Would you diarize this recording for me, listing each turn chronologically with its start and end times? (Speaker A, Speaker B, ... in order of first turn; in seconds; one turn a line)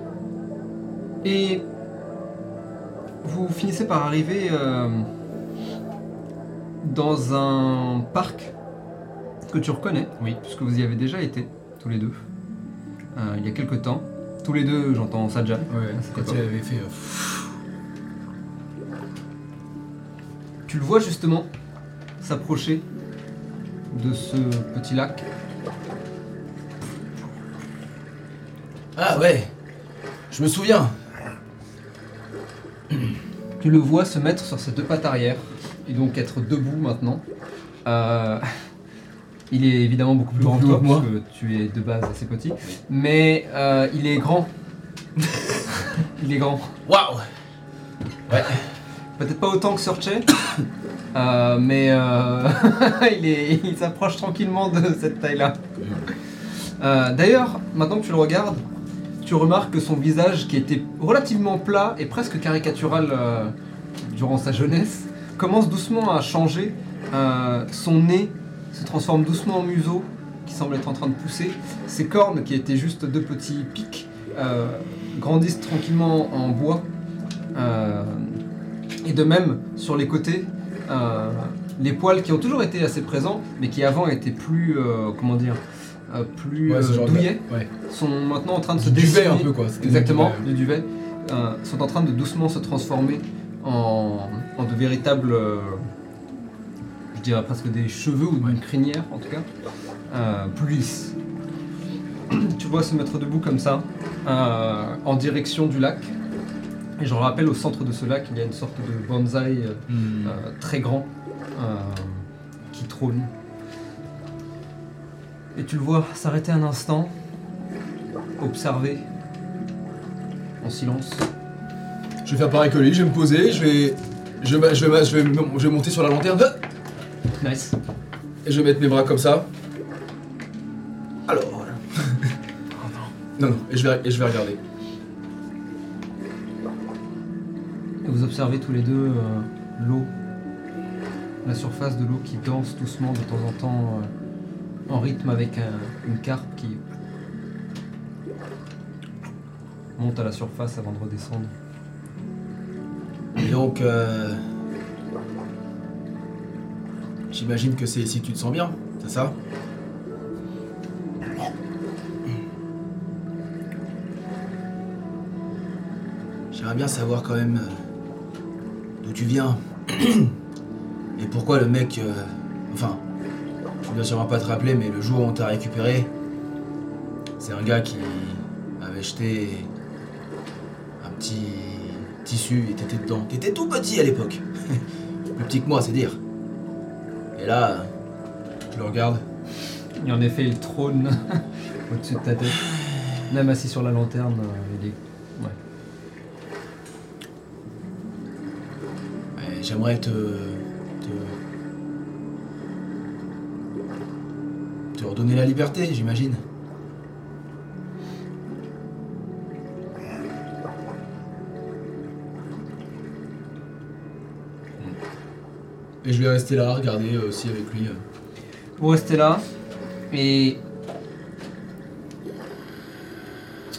Speaker A: 1.2-1.6
Speaker A: 3.2-5.1
Speaker A: 6.8-8.5
Speaker A: 9.5-12.2
Speaker A: 13.1-16.4
Speaker B: 15.7-17.4
Speaker A: 20.7-21.5
Speaker A: 22.2-22.8
Speaker A: 23.9-25.2
Speaker B: 28.9-29.5
Speaker B: 30.3-30.9
Speaker A: 33.6-37.2
Speaker A: 37.8-38.5
Speaker A: 39.5-44.5
Speaker B: 40.3-41.1
Speaker A: 46.0-46.7
Speaker B: 46.9-47.2
Speaker B: 48.3-48.6
Speaker A: 49.2-50.3
Speaker A: 51.1-55.6
Speaker B: 55.8-56.0
Speaker A: 56.8-58.6
Speaker A: 59.2-76.9
Speaker A: 77.5-78.4
Speaker A: 79.0-95.8
Speaker B: 86.7-87.7
Speaker B: 88.8-90.5
Speaker A: 97.1-99.5
Speaker A: 100.1-101.1
Speaker A: 102.3-106.1
Speaker A: 107.0-113.3
Speaker B: 109.9-110.3
Speaker A: 115.5-117.1
Speaker A: 118.4-119.0
Speaker A: 120.6-121.3
Speaker B: 122.2-126.6
Speaker A: 127.4-127.7
Speaker B: 128.4-129.5
Speaker B: 131.3-132.2
Speaker B: 133.4-134.6
Speaker A: 138.0-140.1
Speaker A: 141.4-144.1
Speaker A: 144.9-146.8
Speaker A: 150.0-151.5
Speaker B: 153.4-154.4
Speaker B: 157.3-159.3
Speaker B: 166.5-167.7
Speaker B: 169.0-170.3
Speaker B: 171.2-173.0
Speaker B: 173.8-176.1
Speaker B: 177.4-179.7
Speaker B: 181.0-184.8
Speaker B: 185.3-186.2
Speaker B: 187.3-187.9
Speaker B: 188.7-189.2
Speaker A: 190.0-192.6
Speaker A: 193.3-195.6
Speaker B: 199.3-201.4
Speaker B: 204.9-206.4
Speaker B: 216.0-218.0
Speaker A: 218.8-219.4
Speaker A: 220.1-220.6